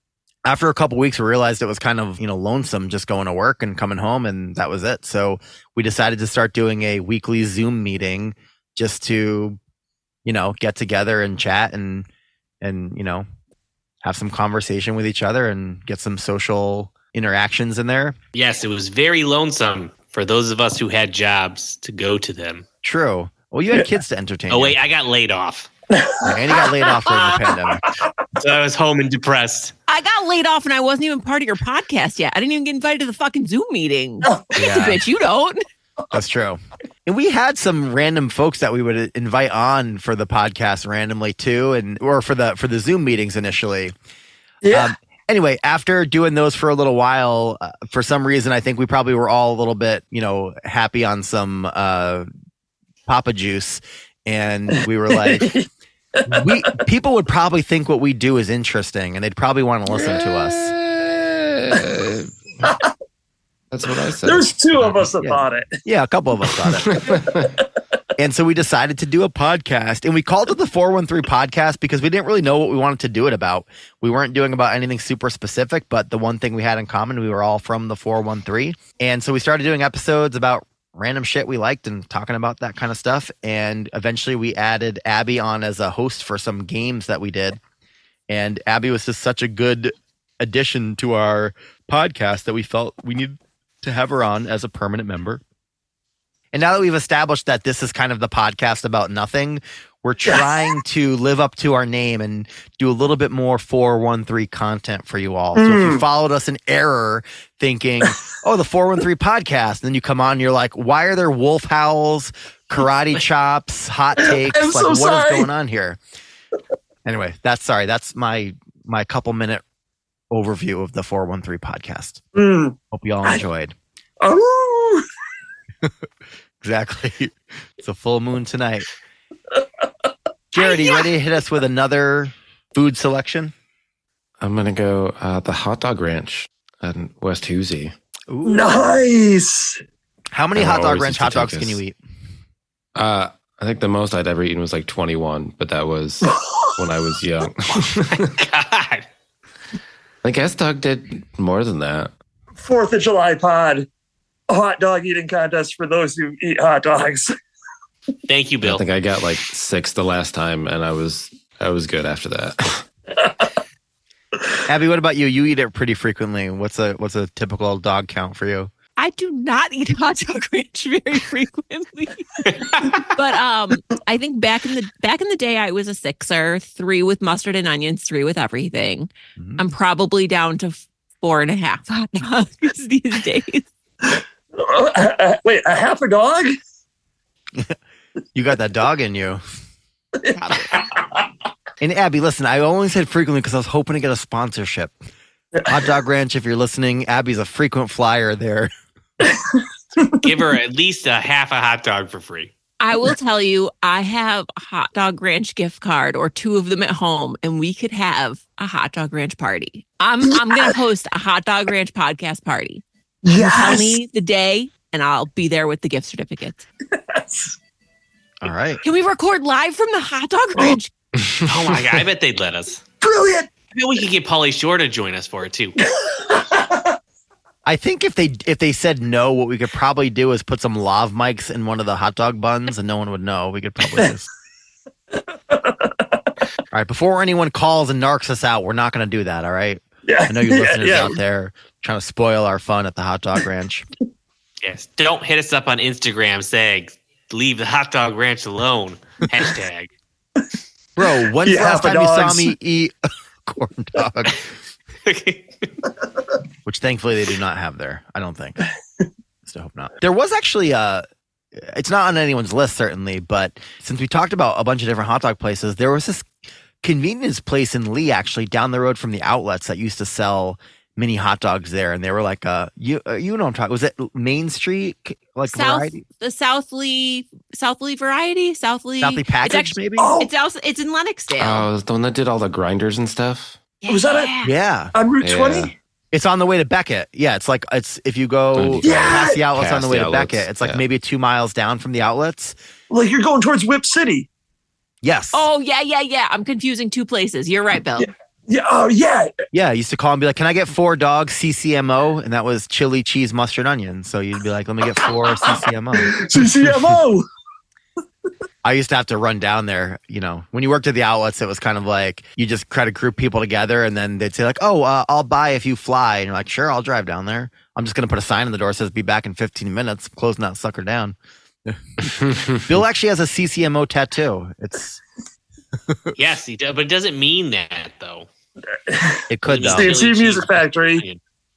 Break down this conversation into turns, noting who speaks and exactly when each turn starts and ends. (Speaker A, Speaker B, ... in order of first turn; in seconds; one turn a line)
Speaker A: 0.5-9.6
Speaker A: 10.2-12.1
Speaker A: 12.6-13.3
Speaker A: 14.0-18.2
Speaker B: 18.3-22.6
Speaker A: 22.8-24.8
Speaker B: 24.5-25.7
Speaker C: 25.9-28.1
Speaker A: 26.2-27.9
Speaker B: 28.4-29.7
Speaker D: 29.9-35.6
Speaker C: 34.3-34.9
Speaker A: 34.5-35.0
Speaker A: 36.1-43.9
Speaker C: 44.6-44.9
Speaker A: 44.7-52.3
Speaker A: 53.1-55.5
Speaker C: 55.1-56.6
Speaker A: 56.3-60.7
Speaker E: 59.9-62.4
Speaker C: 62.6-62.9
Speaker E: 63.7-65.0
Speaker C: 64.2-65.7
Speaker A: 65.2-67.1
Speaker E: 66.8-67.5
Speaker A: 68.2-87.6
Speaker A: 88.3-95.4
Speaker A: 96.5-116.0
Speaker C: 100.3-100.6
Speaker C: 105.5-106.0
Speaker C: 114.2-115.5
Speaker A: 117.0-119.6
Speaker A: 120.3-122.2
Speaker C: 122.3-123.4
Speaker A: 122.9-123.8
Speaker C: 124.2-125.0
Speaker A: 126.6-128.9
Speaker A: 130.5-133.5
Speaker C: 130.6-131.0
Speaker E: 134.4-137.9
Speaker A: 138.3-139.0
Speaker C: 138.4-139.8
Speaker A: 140.3-142.0
Speaker E: 140.6-141.8
Speaker E: 142.9-148.3
Speaker C: 146.3-146.7
Speaker B: 148.1-149.1
Speaker E: 150.2-152.1
Speaker C: 152.6-153.9
Speaker C: 154.5-157.3
Speaker B: 158.3-158.8
Speaker E: 158.6-162.8
Speaker A: 164.7-168.7
Speaker D: 169.0-183.7
Speaker A: 179.4-179.6
Speaker C: 184.0-186.5
Speaker A: 188.3-189.4
Speaker C: 190.2-191.2
Speaker A: 191.8-194.9
Speaker A: 195.7-198.7
Speaker C: 199.2-200.2
Speaker B: 200.1-202.5
Speaker D: 202.8-212.8
Speaker C: 213.2-214.0
Speaker D: 213.3-216.7
Speaker C: 216.9-217.6
Speaker A: 218.4-218.8
Speaker D: 218.8-220.9
Speaker E: 221.3-221.5
Speaker B: 221.5-222.8
Speaker C: 223.0-223.5
Speaker B: 223.7-225.8
Speaker C: 226.1-227.0
Speaker A: 227.7-234.3
Speaker C: 235.1-236.3
Speaker A: 236.7-243.9
Speaker C: 240.1-241.2
Speaker B: 244.6-249.9
Speaker A: 251.0-252.9
Speaker C: 251.4-252.5
Speaker A: 253.4-254.5
Speaker B: 255.1-255.7
Speaker A: 256.6-258.6
Speaker A: 259.4-261.1
Speaker A: 261.6-266.3
Speaker A: 266.8-276.0
Speaker D: 275.5-281.7
Speaker A: 279.0-280.1
Speaker C: 280.0-280.3
Speaker E: 281.4-283.6
Speaker D: 283.8-284.5
Speaker C: 283.9-284.3
Speaker A: 284.4-284.9
Speaker C: 284.9-285.7
Speaker E: 285.2-285.7
Speaker A: 286.1-292.6
Speaker E: 288.5-290.8
Speaker C: 288.8-289.4
Speaker C: 292.9-294.3
Speaker A: 295.0-295.5
Speaker D: 295.3-298.1
Speaker C: 298.0-299.3
Speaker A: 299.5-306.2
Speaker C: 305.5-307.2
Speaker A: 308.6-325.0
Speaker E: 322.2-322.6
Speaker B: 326.1-328.3
Speaker C: 328.9-331.0
Speaker A: 329.3-329.9
Speaker B: 329.5-331.2